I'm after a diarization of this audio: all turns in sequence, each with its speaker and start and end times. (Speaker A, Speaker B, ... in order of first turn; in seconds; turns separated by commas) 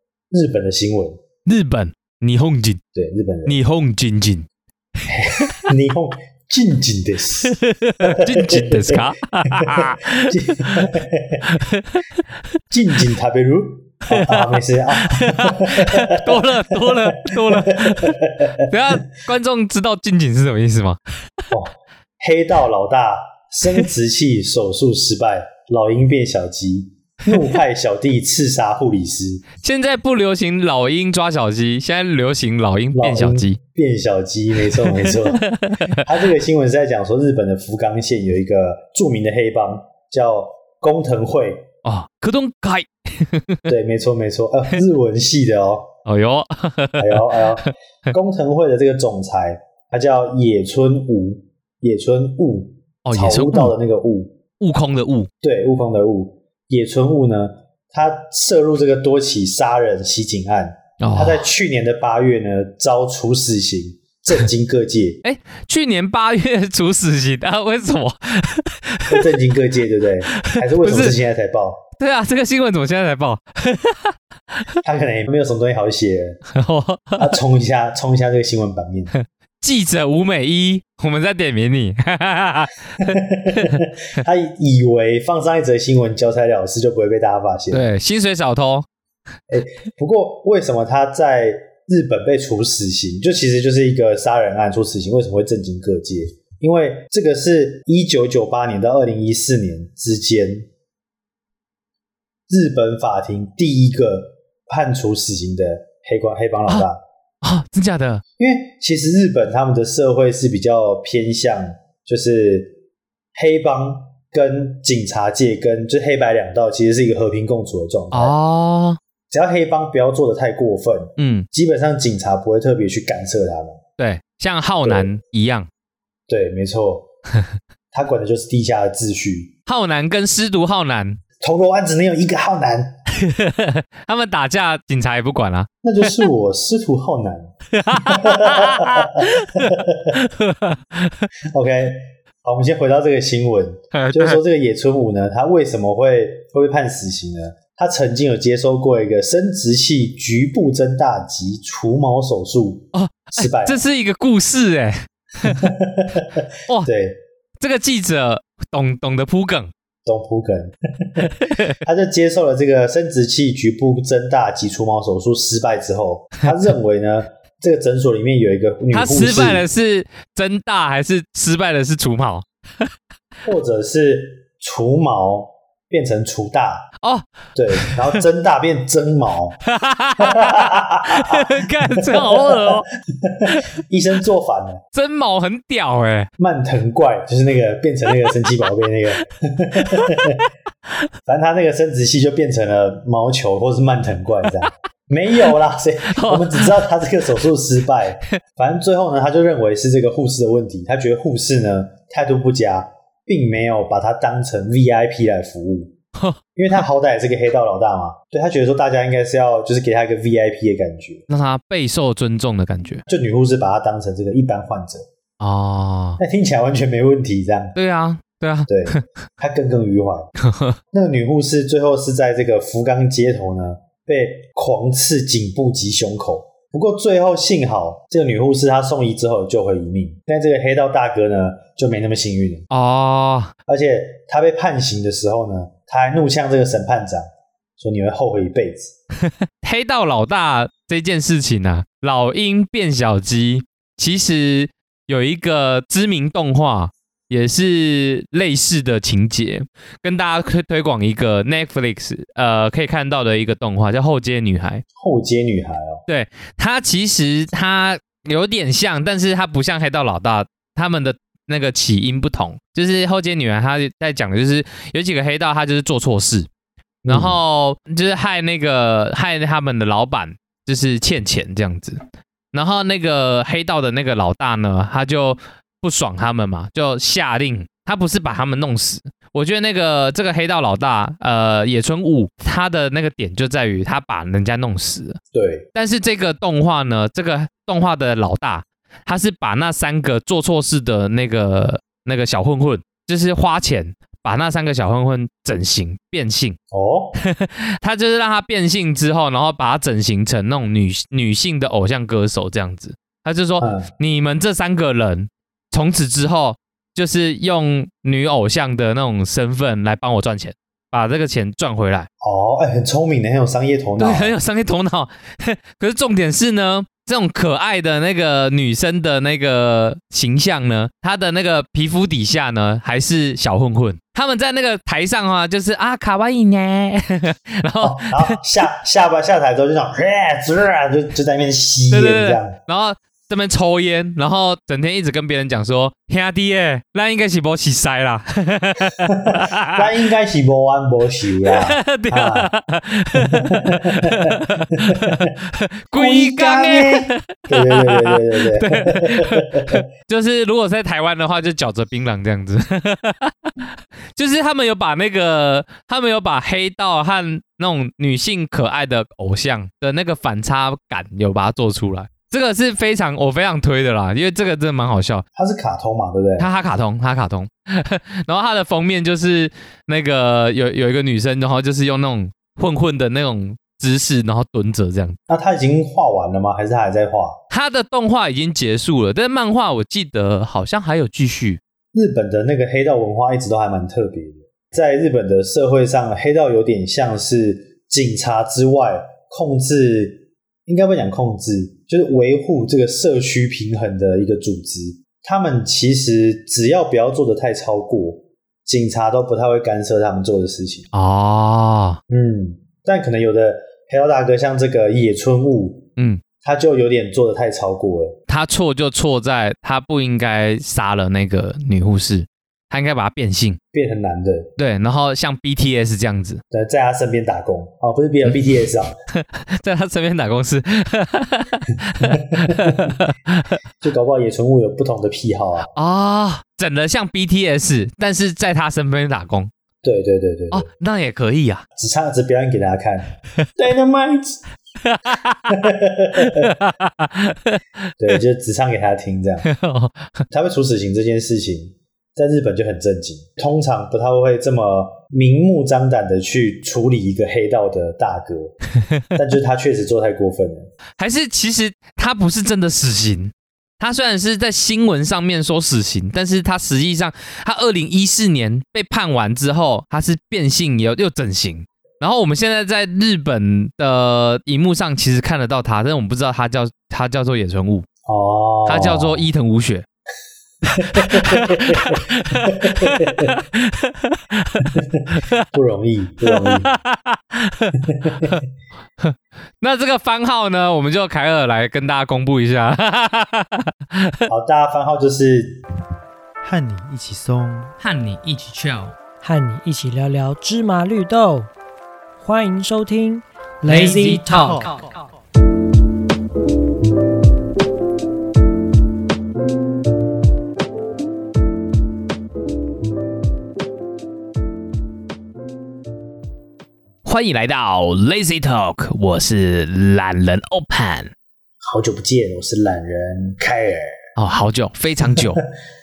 Speaker A: 0.3-1.2, Speaker B: 1.4-2.8, Speaker A: 2.9-3.5, Speaker B: 3.5-4.5, Speaker A: 5.1-11.7, Speaker B: 5.2-5.6, Speaker B: 7.4-10.9, Speaker B: 11.5-12.2, Speaker A: 12.7-18.7, Speaker B: 14.1-21.0, Speaker A: 21.5-29.4, Speaker B: 29.6-33.6, Speaker A: 32.9-41.7, Speaker B: 34.7-36.0, Speaker B: 41.8-43.7, Speaker A: 43.6-46.0, Speaker B: 46.0-47.7, Speaker A: 47.0-54.4, Speaker B: 53.0-53.7, Speaker B: 54.6-55.3, Speaker A: 55.4-65.2, Speaker B: 61.0-61.5, Speaker B: 65.2-69.3, Speaker A: 69.1-71.8, Speaker B: 70.3-71.2, Speaker B: 72.0-74.7, Speaker A: 74.8-76.4, Speaker B: 76.5-77.4, Speaker A: 77.2-79.1, Speaker B: 79.1-83.8, Speaker A: 83.0-87.8, Speaker B: 87.7-88.8, Speaker A: 89.5-100.7, Speaker A: 102.5-107.0, Speaker B: 107.4-108.2, Speaker A: 108.4-112.8, Speaker A: 113.3-118.3, Speaker B: 118.1-119.0, Speaker A: 119.3-123.8, Speaker B: 121.2-121.5, Speaker B: 124.0-125.7, Speaker A: 124.8-125.1, Speaker A: 126.3-127.1, Speaker A: 127.9-129.5, Speaker B: 129.7-131.2, Speaker A: 131.4-132.9, Speaker B: 133.1-136.1, Speaker A: 135.8-140.2, Speaker B: 137.7-141.3, Speaker A: 141.5-153.8, Speaker B: 143.9-144.4, Speaker B: 152.9-155.7, Speaker A: 155.4-157.2, Speaker B: 157.6-159.7, Speaker A: 160.1-169.7, Speaker B: 161.2-161.8, Speaker B: 168.9-172.9, Speaker A: 173.4-176.9, Speaker B: 177.0-178.2, Speaker A: 177.5-179.6, Speaker B: 179.6-182.9, Speaker A: 180.2-184.8, Speaker B: 184.9-186.3, Speaker A: 186.4-190.5, Speaker B: 189.8-190.3, Speaker A: 191.2-205.9, Speaker B: 196.1-196.8, Speaker A: 206.5-211.2, Speaker B: 211.3-213.0, Speaker A: 213.1-215.1, Speaker B: 215.4-216.2, Speaker A: 216.2-217.8, Speaker B: 217.8-219.0, Speaker A: 218.7-220.3, Speaker B: 220.4-220.8, Speaker A: 220.9-232.6, Speaker B: 232.7-233.5, Speaker A: 233.7-237.2, Speaker A: 237.8-238.9, Speaker B: 239.3-254.8, Speaker A: 254.9-256.0, Speaker B: 256.1-266.5, Speaker A: 267.1-267.4, Speaker B: 267.1-272.0, Speaker B: 272.5-285.2, Speaker A: 285.3-285.6, Speaker B: 285.7-296.6, Speaker A: 296.7-297.2, Speaker B: 297.1-312.1, Speaker A: 303.6-303.9, Speaker A: 312.2-314.3, Speaker B: 314.0-328.6, Speaker A: 327.8-332.6, Speaker B: 331.9-339.9, Speaker A: 339.0-342.5, Speaker B: 341.4-365.2, Speaker A: 343.1-345.3, Speaker A: 345.9-349.8, Speaker A: 365.3-366.5, Speaker B: 366.4-375.2, Speaker A: 375.3-377.4, Speaker B: 377.5-381.6, Speaker A: 381.9-400.9, Speaker B: 400.9-402.0, Speaker A: 402.1-405.9, Speaker B: 406.0-406.2, Speaker A: 406.4-408.2, Speaker B: 408.3-413.6, Speaker A: 413.7-414.5, Speaker B: 414.6-416.4, Speaker A: 416.5-418.9, Speaker B: 419.1-423.6, Speaker A: 422.0-422.9, Speaker A: 423.8-425.7, Speaker B: 425.7-429.5, Speaker A: 429.8-430.7, Speaker B: 430.5-431.6, Speaker A: 431.8-434.4, Speaker B: 434.8-435.6, Speaker A: 435.5-436.6, Speaker B: 436.1-437.6, Speaker A: 438.0-439.5, Speaker B: 439.4-440.1, Speaker A: 440.3-448.5, Speaker A: 449.1-450.7, Speaker B: 451.0-467.9, Speaker A: 468.1-469.3, Speaker B: 468.7-469.9, Speaker A: 470.7-473.4, Speaker B: 470.8-475.4, Speaker A: 474.6-476.7, Speaker B: 476.2-478.4, Speaker A: 477.8-478.4, Speaker B: 479.0-484.2, Speaker A: 484.3-485.6, Speaker A: 486.4-487.7, Speaker B: 487.8-488.9, Speaker C: 489.2-491.5, Speaker C: 492.2-494.9, Speaker B: 493.7-494.9, Speaker B: 507.0-511.1, Speaker A: 511.6-514.0, Speaker B: 514.2-515.4